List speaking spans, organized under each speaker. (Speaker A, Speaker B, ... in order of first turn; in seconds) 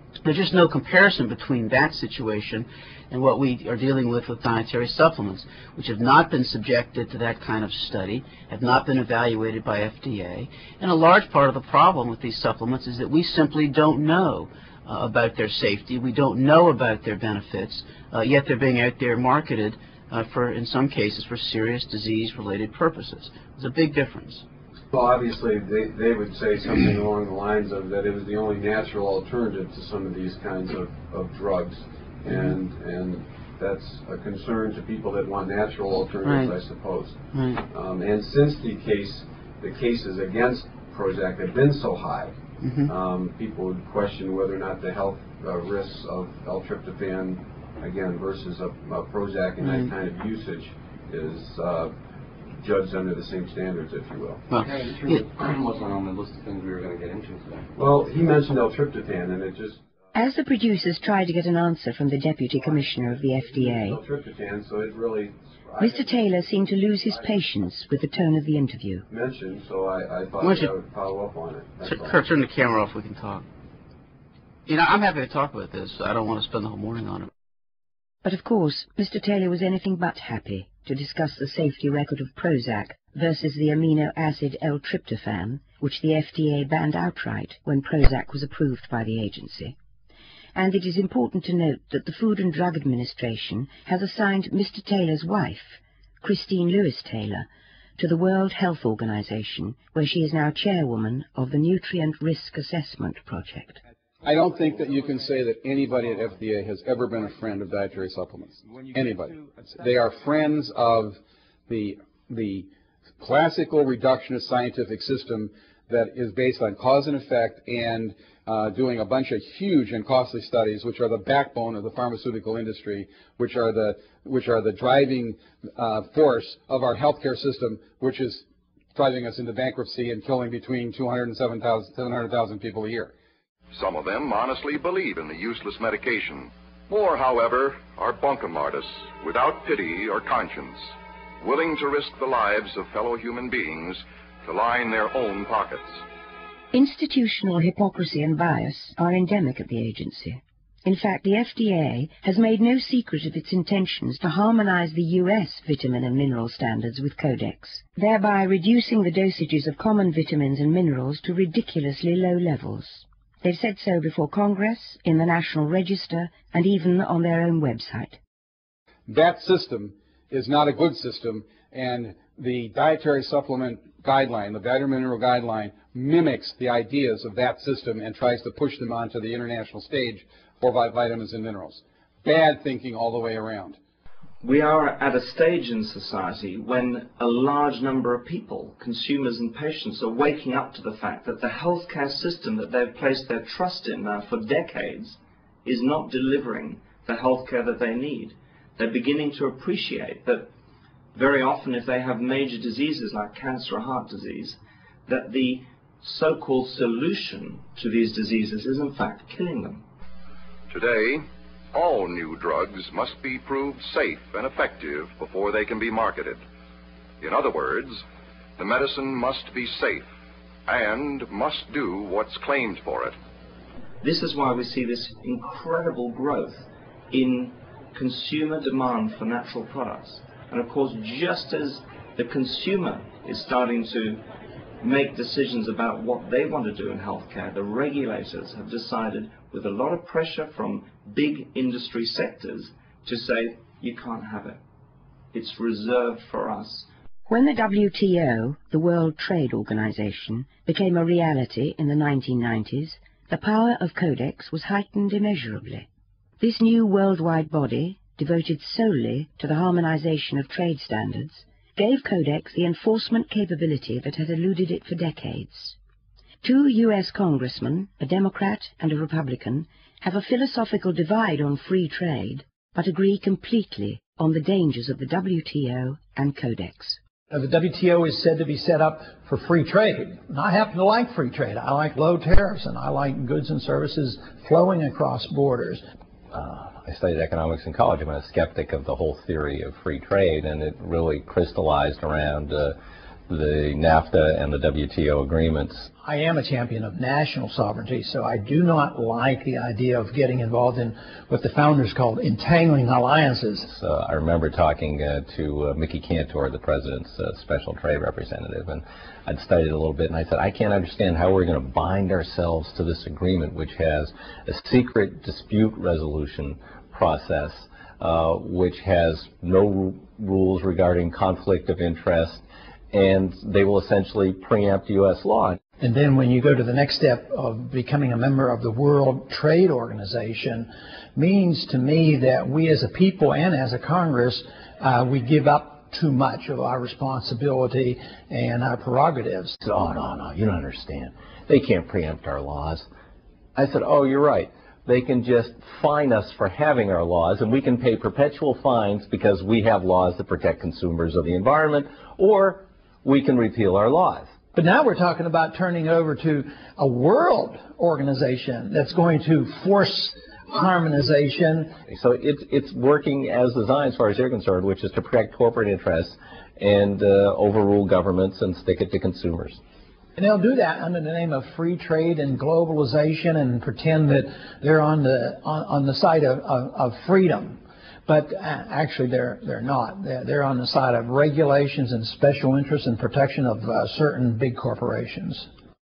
Speaker A: 0.2-24.4, 36.2-36.6, 37.3-37.6, 42.6-42.9, 49.6-49.9, 54.5-55.3, 70.4-70.7, 71.8-73.5, 74.7-77.3
Speaker B: 24.9-52.0, 52.5-54.5, 57.8-59.8, 63.5-66.5, 69.1-72.2
Speaker C: 54.6-57.6
Speaker D: 60.1-64.0, 65.8-69.0, 78.2-89.8, 90.5-97.5, 98.0-103.8, 146.7-168.2, 247.3-255.9, 256.4-265.8, 266.4-277.0
Speaker E: 104.2-112.7, 113.2-128.4, 128.9-133.1, 169.1-183.8
Speaker F: 133.7-140.8, 141.4-146.0, 210.7-216.4, 217.2-218.0, 218.6-220.1, 220.7-223.1
Speaker G: 184.4-200.5, 201.2-209.8, 224.0-234.2, 234.8-244.6, 245.3-246.9
Speaker H: 277.3-285.8, 296.0-303.7, 325.8-339.6, 354.5-361.7, 370.2-385.5
Speaker I: 286.3-292.8, 293.3-295.9, 303.7-325.6, 339.6-342.9, 343.6-354.3, 361.9-369.6